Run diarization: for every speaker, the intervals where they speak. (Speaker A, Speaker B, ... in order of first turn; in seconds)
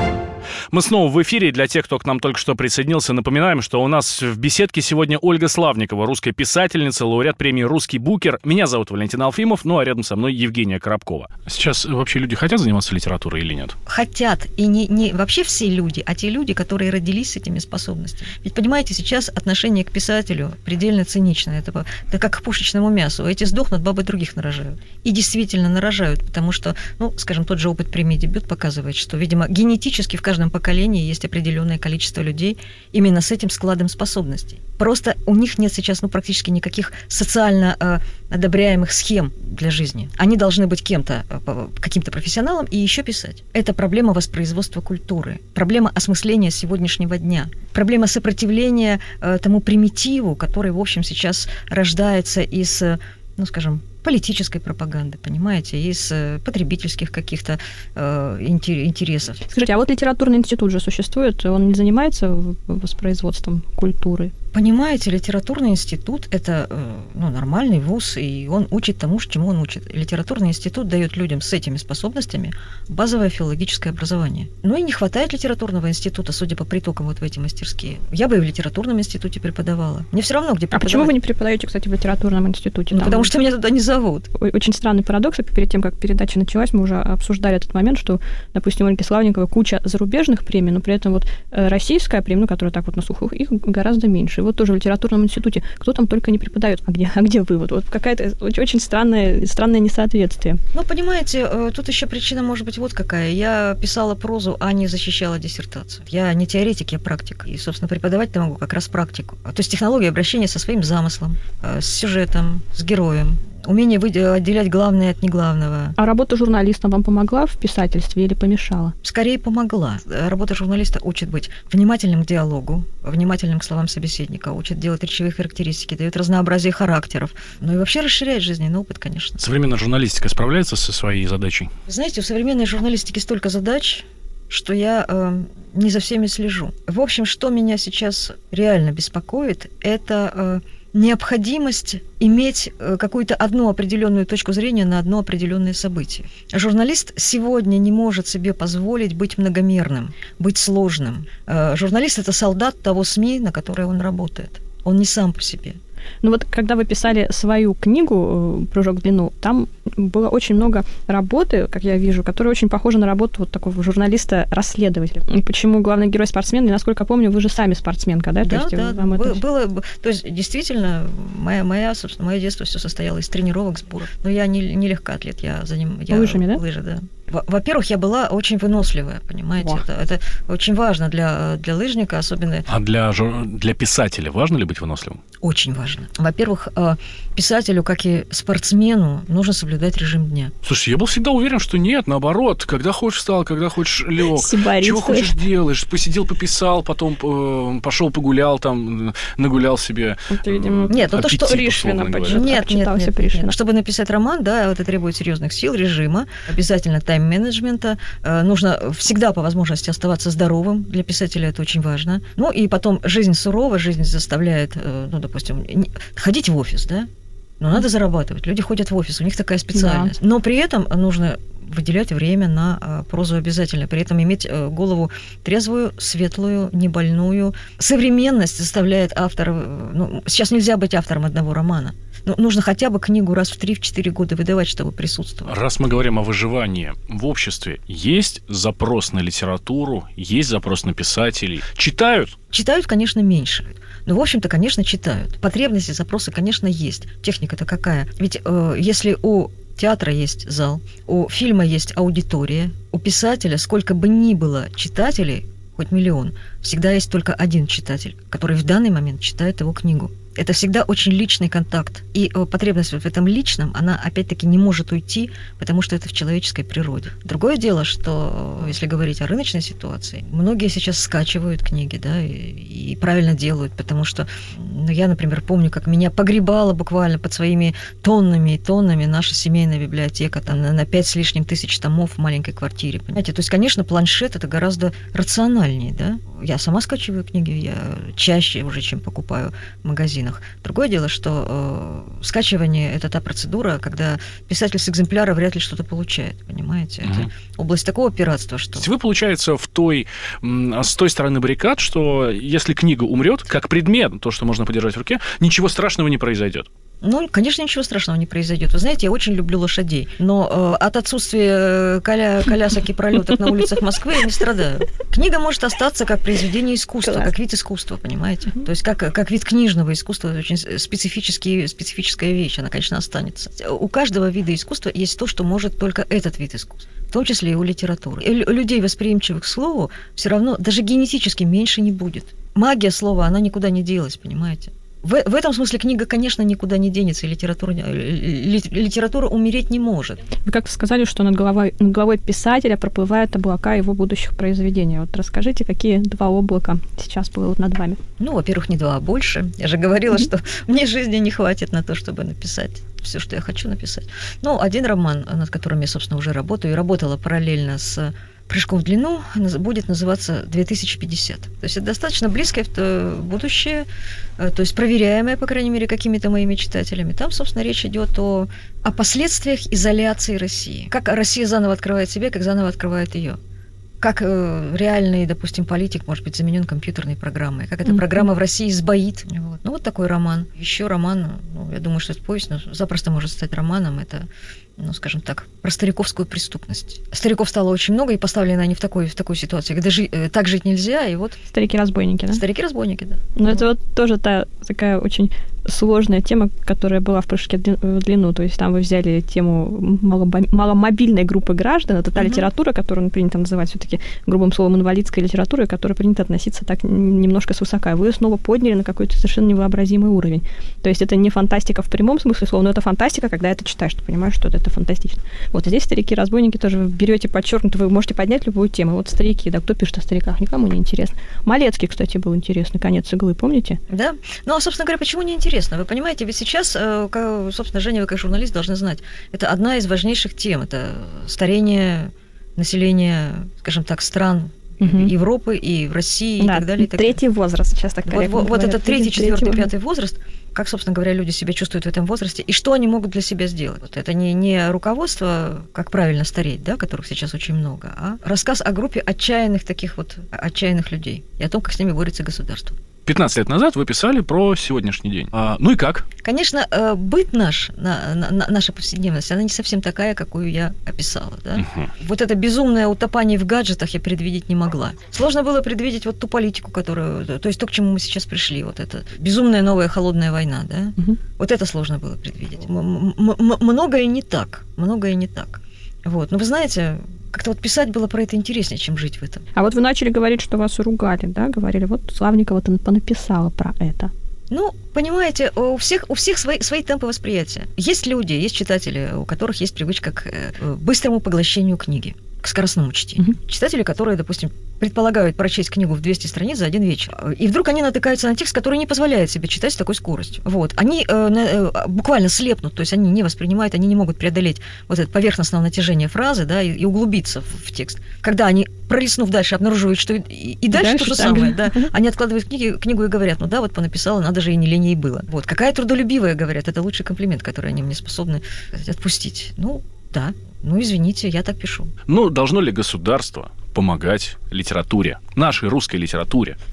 Speaker A: 0.7-13.8, 129.4-131.7, 182.7-185.2, 190.6-202.5, 235.5-242.3, 297.0-297.3, 298.8-306.7, 453.1-456.1, 461.6-461.9, 522.1-526.6
Speaker B: 13.9-59.4, 64.5-81.1, 82.9-84.3, 100.7-116.0, 119.0-129.4, 131.9-155.8, 168.4-182.7, 185.4-190.5, 200.9-201.7, 202.2-217.1, 217.6-235.5, 242.5-298.9, 307.0-340.2, 348.2-363.9, 364.4-373.4, 374.0-391.4, 392.3-393.7, 402.2-402.5, 423.9-437.2, 438.1-452.8, 456.2-479.4, 484.5-521.9
Speaker C: 59.5-64.3, 80.7-83.3, 84.3-100.6, 116.0-118.9, 156.2-169.4, 176.1-176.6, 194.3-195.3, 200.4-203.6, 219.7-220.1, 317.1-317.3, 340.4-348.0, 391.5-392.4, 393.4-423.8, 434.8-435.1, 436.4-439.7, 479.6-484.1, 510.7-511.9